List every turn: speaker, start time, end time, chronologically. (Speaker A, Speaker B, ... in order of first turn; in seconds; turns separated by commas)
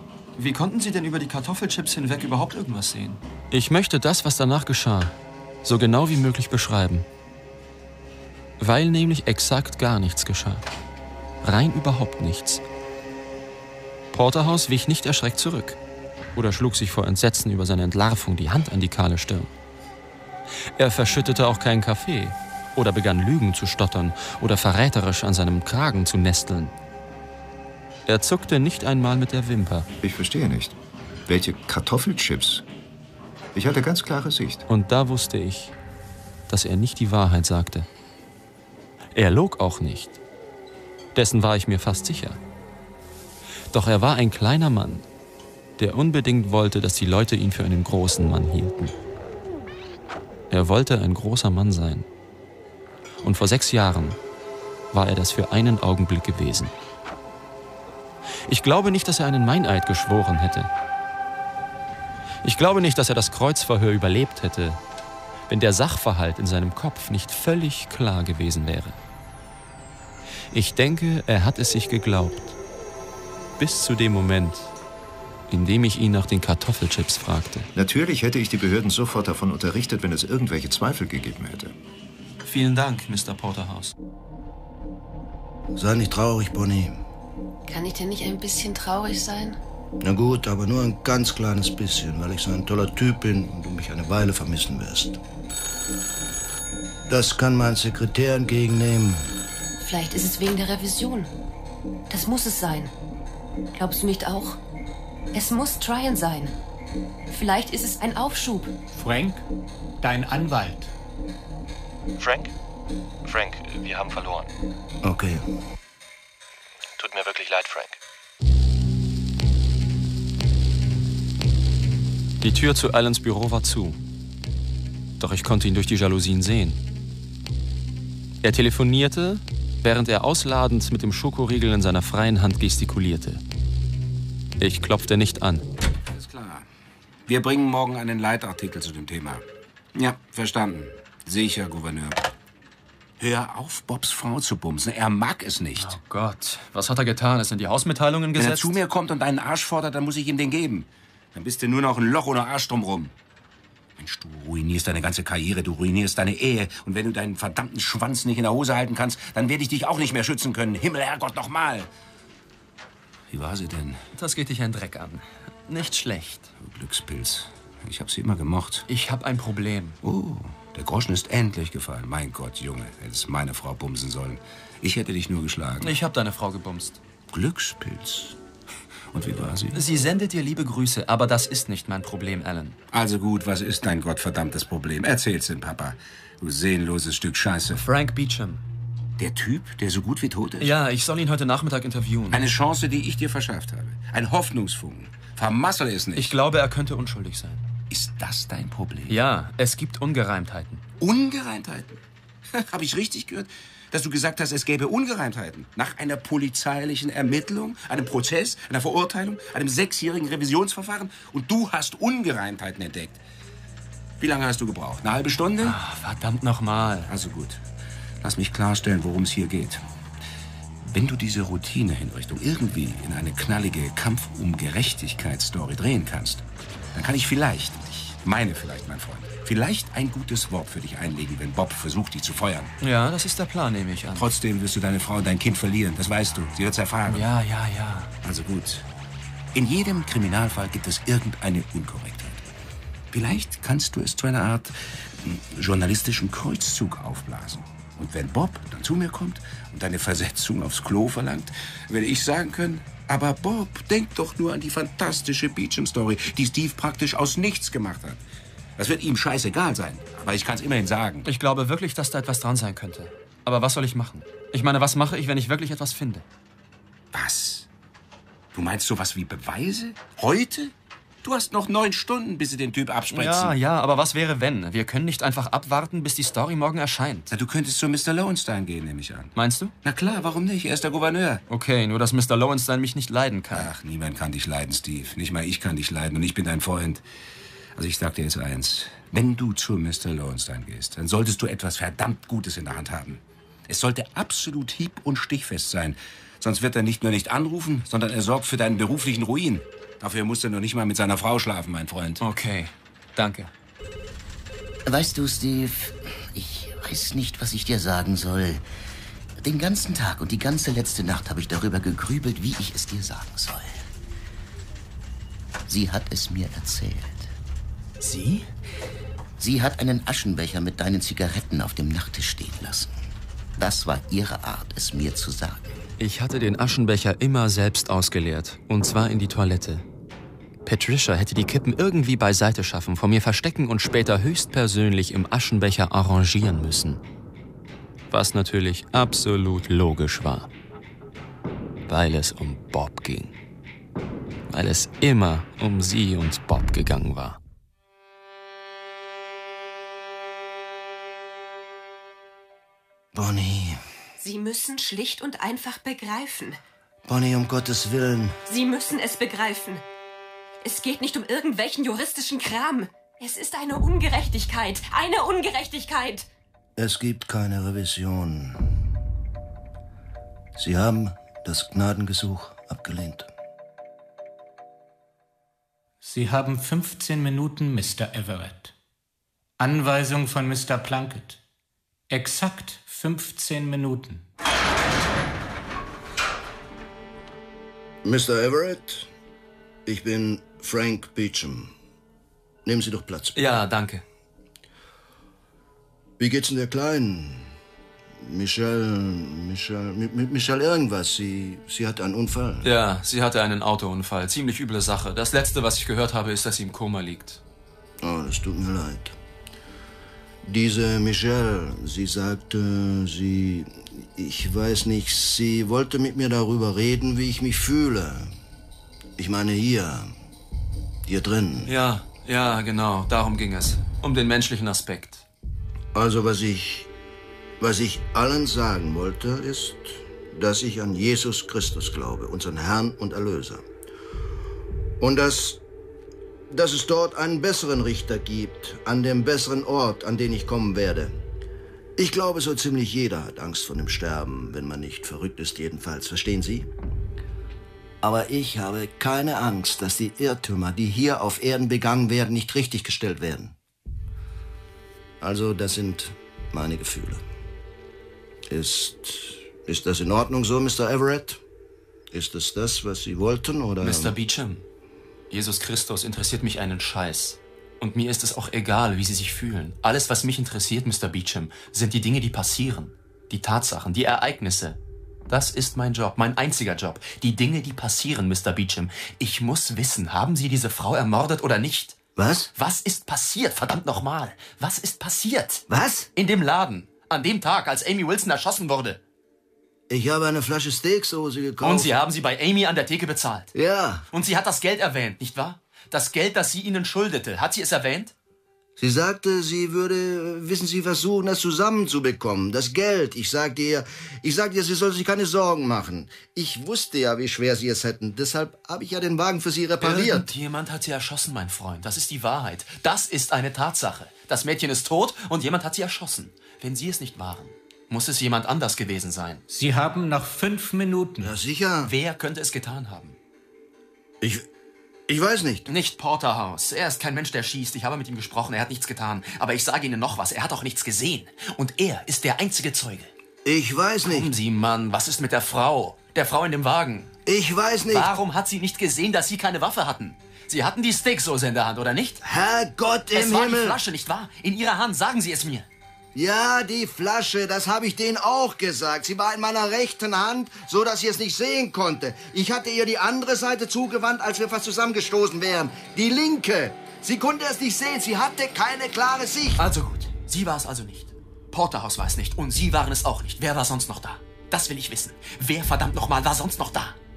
Speaker A: 0.4-7.1, Speaker A: 8.6-10.7, Speaker A: 11.4-12.6, Speaker A: 14.1-15.8, Speaker A: 16.4-19.5, Speaker A: 20.8-26.8, Speaker A: 28.1-29.9, Speaker B: 30.0-30.8, Speaker B: 31.3-32.6, Speaker B: 33.5-34.6, Speaker A: 34.7-35.7, Speaker A: 36.5-37.9, Speaker A: 39.1-40.2, Speaker A: 41.1-42.4, Speaker A: 43.7-45.1, Speaker A: 45.8-48.9, Speaker A: 50.5-52.1, Speaker A: 53.2-54.2, Speaker A: 54.9-56.8, Speaker A: 58.5-60.7, Speaker A: 62.4-64.8, Speaker A: 65.5-69.0, Speaker A: 70.5-72.5, Speaker A: 73.6-74.7, Speaker A: 75.5-77.7, Speaker B: 77.7-81.7, Speaker A: 82.4-83.9, Speaker C: 85.8-87.0, Speaker D: 87.7-89.6, Speaker C: 90.0-95.2, Speaker C: 97.1-99.3, Speaker D: 99.8-101.3, Speaker D: 102.1-102.9, Speaker D: 103.7-104.6, Speaker D: 105.3-106.5, Speaker D: 107.3-108.7, Speaker E: 108.9-109.4, Speaker E: 110.0-110.9, Speaker F: 112.2-112.5, Speaker F: 113.2-114.5, Speaker C: 115.0-115.5, Speaker F: 117.0-118.0, Speaker A: 122.4-124.0, Speaker A: 125.2-126.8, Speaker A: 128.4-133.4, Speaker A: 134.6-135.7, Speaker G: 136.1-136.7, Speaker G: 137.3-139.4, Speaker G: 140.0-142.2, Speaker G: 143.2-146.0, Speaker A: 145.8-148.8, Speaker G: 148.4-153.1, Speaker G: 154.0-161.9, Speaker G: 163.3-164.0, Speaker A: 164.2-166.5, Speaker G: 166.6-168.9, Speaker A: 168.9-170.0, Speaker G: 170.0-175.9, Speaker A: 175.8-177.0, Speaker G: 177.3-178.4, Speaker G: 179.1-179.8, Speaker A: 179.7-182.8, Speaker G: 182.9-187.8, Speaker A: 187.8-188.6, Speaker G: 189.2-190.8, Speaker A: 190.6-192.4, Speaker G: 192.3-196.3, Speaker A: 196.2-197.6, Speaker G: 197.9-199.2, Speaker A: 199.1-200.8, Speaker G: 201.0-202.0, Speaker G: 202.6-213.2, Speaker G: 214.2-215.8, Speaker A: 215.6-217.1, Speaker G: 217.1-217.6, Speaker G: 218.2-219.8, Speaker G: 220.8-232.7, Speaker A: 232.8-234.3, Speaker G: 234.2-237.3, Speaker A: 237.1-238.1, Speaker G: 238.2-238.8, Speaker G: 239.6-242.4, Speaker G: 243.1-258.2, Speaker G: 258.8-261.3, Speaker A: 261.2-266.2, Speaker G: 267.1-267.7, Speaker G: 268.5-270.7, Speaker G: 271.2-273.6, Speaker A: 273.1-277.3, Speaker G: 277.3-279.3, Speaker A: 279.4-279.7, Speaker G: 279.8-281.4, Speaker A: 281.5-283.7, Speaker G: 283.5-287.0, Speaker G: 287.8-302.2, Speaker A: 302.2-303.5, Speaker H: 304.9-308.6, Speaker H: 309.4-313.9, Speaker H: 315.7-317.3, Speaker A: 318.0-318.5, Speaker H: 319.4-322.9, Speaker H: 323.6-325.8, Speaker A: 326.0-329.9, Speaker A: 330.6-337.0, Speaker A: 338.1-340.5, Speaker A: 341.9-343.4, Speaker A: 344.5-347.4, Speaker C: 353.1-353.8, Speaker D: 354.2-356.6, Speaker C: 357.1-358.4, Speaker D: 358.5-359.8, Speaker D: 360.6-366.3, Speaker C: 366.8-368.7, Speaker C: 370.6-373.3, Speaker E: 376.0-378.7, Speaker E: 379.6-381.4, Speaker E: 382.1-384.3, Speaker C: 388.0-389.1, Speaker C: 389.9-391.7, Speaker C: 392.6-393.4, Speaker A: 393.4-394.0, Speaker C: 396.2-397.5, Speaker C: 398.2-402.7, Speaker A: 402.6-407.4, Speaker C: 408.0-409.1, Speaker C: 410.4-418.3, Speaker C: 419.2-420.1, Speaker C: 421.1-421.7, Speaker A: 421.6-425.2, Speaker C: 425.9-426.9, Speaker C: 427.6-433.6, Speaker C: 435.0-435.6, Speaker C: 436.5-441.1, Speaker C: 442.0-446.7, Speaker C: 448.0-453.5, Speaker C: 455.2-457.2, Speaker C: 458.5-461.4, Speaker C: 462.1-464.1, Speaker A: 463.8-464.6, Speaker A: 465.3-474.8, Speaker A: 475.3-482.0, Speaker C: 482.2-482.5, Speaker A: 482.6-489.0, Speaker C: 485.7-486.1, Speaker C: 489.9-491.9, Speaker A: 491.6-493.5, Speaker C: 493.5-494.1, Speaker A: 494.1-498.1, Speaker C: 498.8-510.3, Speaker A: 509.8-519.4, Speaker E: 519.5-521.4, Speaker C: 521.2-521.9, Speaker A: 521.8-523.2, Speaker C: 524.2-524.5, Speaker C: 525.1-525.7, Speaker A: 525.7-533.1, Speaker C: 533.5-534.3, Speaker A: 534.0-537.1, Speaker C: 537.3-538.1, Speaker A: 537.9-542.2, Speaker C: 542.2-543.8, Speaker A: 543.1-545.7, Speaker C: 546.1-559.6, Speaker A: 559.6-567.0